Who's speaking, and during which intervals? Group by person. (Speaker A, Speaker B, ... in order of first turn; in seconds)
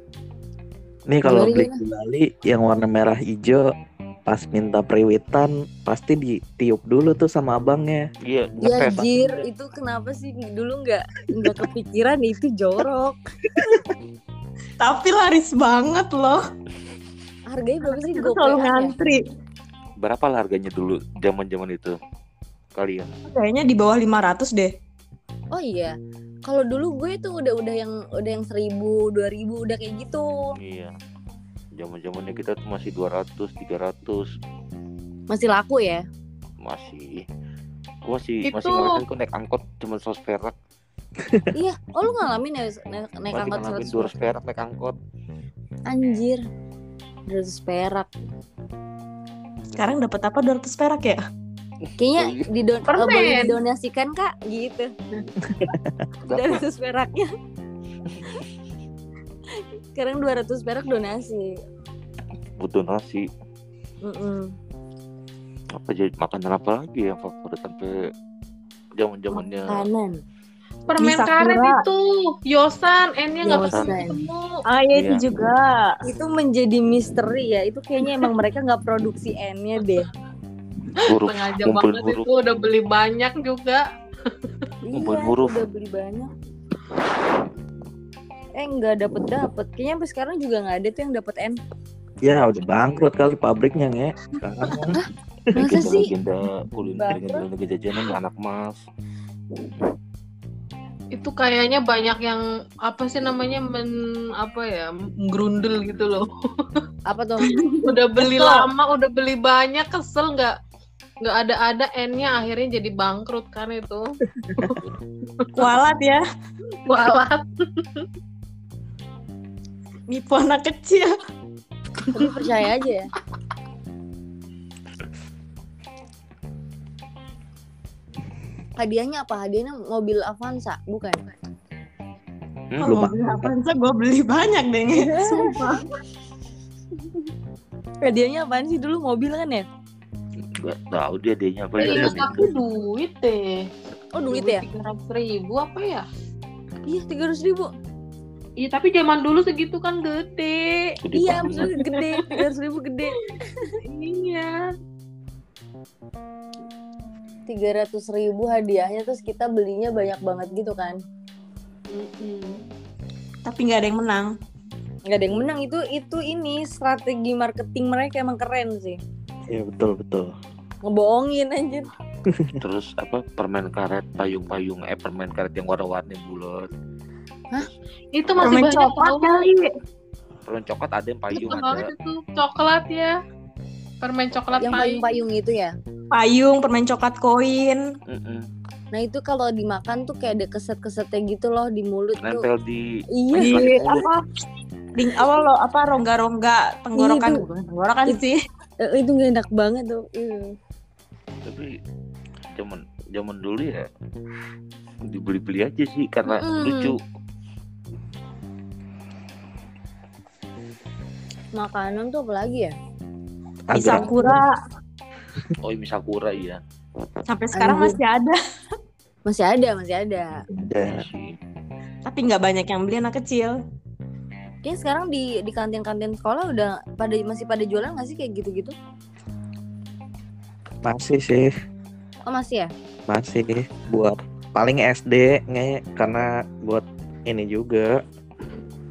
Speaker A: 1.1-3.7, 4.3-8.1, 55.4-56.0, 92.2-95.0, 132.8-133.5, 169.5-170.3, 172.3-172.6, 213.7-214.4, 220.6-221.1, 230.8-231.5, 233.1-238.0
Speaker B: 1.2-1.8, 8.6-13.2, 17.5-18.9, 25.5-25.9, 26.4-30.6, 35.3-36.0, 41.5-44.1, 45.9-46.4, 47.3-48.1, 52.0-54.9, 56.3-57.3, 59.9-61.5, 64.0-64.5, 69.7-70.2, 73.4-74.2, 76.0-80.1, 84.8-86.3, 88.6-91.6, 95.5-96.1, 96.9-97.4, 107.1-107.5, 122.1-123.1, 128.8-131.2, 134.9-135.6, 138.0-139.7, 144.1-144.6, 146.9-147.7, 151.1-153.8, 157.5-161.0, 165.1-169.0, 170.9-171.9, 184.6-185.7, 188.9-192.4, 193.1-193.7, 196.9-197.4, 198.8-200.5, 206.3-206.9, 211.6-212.7, 217.6-218.0, 219.3-220.3, 224.6-228.7, 232.3-232.7
Speaker C: 8.2-9.4, 20.0-22.0, 22.7-23.1, 30.6-30.9, 31.8-34.3, 36.6-37.2, 38.0-40.5, 43.3-45.0, 52.1-52.5, 56.3-56.6, 62.6-63.3, 65.7-68.1, 69.0-69.9, 73.5-73.9, 74.9-75.2, 81.0-82.3, 84.9-85.6, 94.4-95.0, 95.5-98.8, 132.7-133.0, 140.4-142.5, 151.0-151.7, 172.6-176.7, 180.4-181.9, 188.1-188.5, 192.2-194.1, 201.4-201.7, 202.5-203.9, 205.0-207.0, 215.6-216.6, 220.7-221.4
Speaker D: 14.8-16.4, 17.9-19.2, 23.3-24.7, 49.7-51.2, 71.0-71.8, 74.7-75.9, 107.4-108.7, 115.5-116.2, 120.1-121.1, 132.8-135.9, 163.4-164.3, 178.4-179.7, 186.1-187.8, 193.3-194.3, 194.9-198.4, 213.7-214.6, 217.3-218.4, 222.0-223.6
Speaker E: 38.5-39.0, 52.9-53.6, 70.9-74.6, 81.0-83.8, 101.1-106.8, 107.8-110.6, 111.2-114.8, 116.8-118.1, 141.8-143.7, 144.3-146.1, 148.6-152.3, 153.8-154.7, 161.9-162.6, 178.1-179.5, 181.3-183.2, 184.0-185.1